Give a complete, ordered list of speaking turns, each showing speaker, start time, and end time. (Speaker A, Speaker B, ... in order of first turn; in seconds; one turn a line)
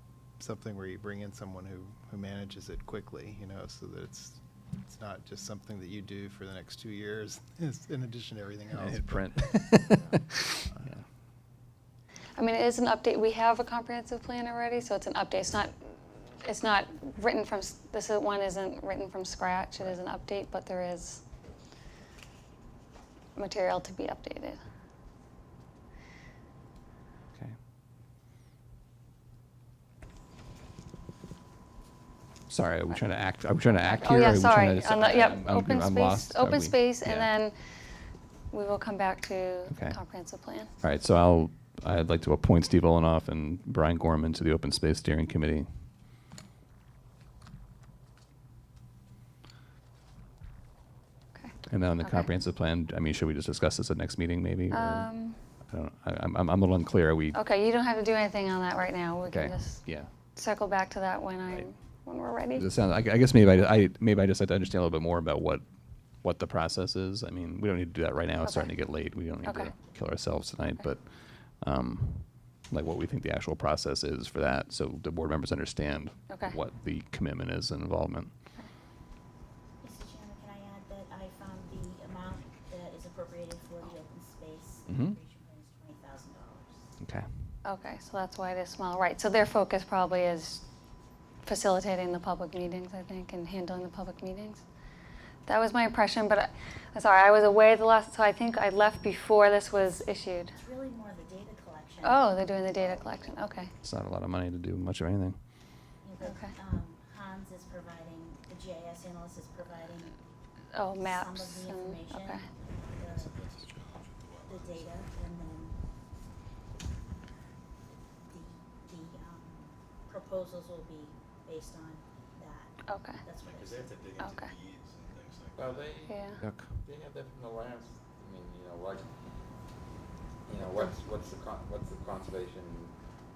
Speaker A: 0.4-10.2
Speaker B: 8.8-10.2
Speaker C: 12.4-21.2
Speaker C: 23.4-24.6
Speaker B: 32.5-37.3
Speaker C: 33.7-37.5
Speaker C: 38.5-40.7
Speaker B: 39.7-40.2
Speaker B: 40.8-45.7
Speaker C: 51.4-52.3
Speaker B: 51.7-57.4
Speaker C: 54.7-55.4
Speaker C: 57.4-59.8
Speaker B: 59.3-60.1
Speaker C: 60.4-62.6
Speaker B: 61.5-78.3
Speaker C: 68.4-68.7
Speaker D: 79.8-87.0
Speaker B: 84.9-85.2
Speaker B: 87.0-87.5
Speaker C: 87.7-90.6
Speaker C: 91.5-94.6
Speaker C: 95.5-100.5
Speaker D: 100.5-102.4
Speaker C: 102.0-103.7
Speaker E: 102.7-103.7
Speaker B: 103.8-105.4
Speaker D: 106.0-110.2
Speaker C: 106.2-106.5
Speaker C: 110.7-112.4
Speaker D: 111.0-113.4
Speaker F: 113.0-115.0
Speaker D: 114.5-115.8
Speaker D: 118.3-124.1
Speaker C: 122.9-123.2
Speaker F: 123.4-126.0
Speaker E: 125.6-129.1
Speaker C: 126.1-126.4
Speaker B: 126.4-126.8
Speaker E: 130.5-133.0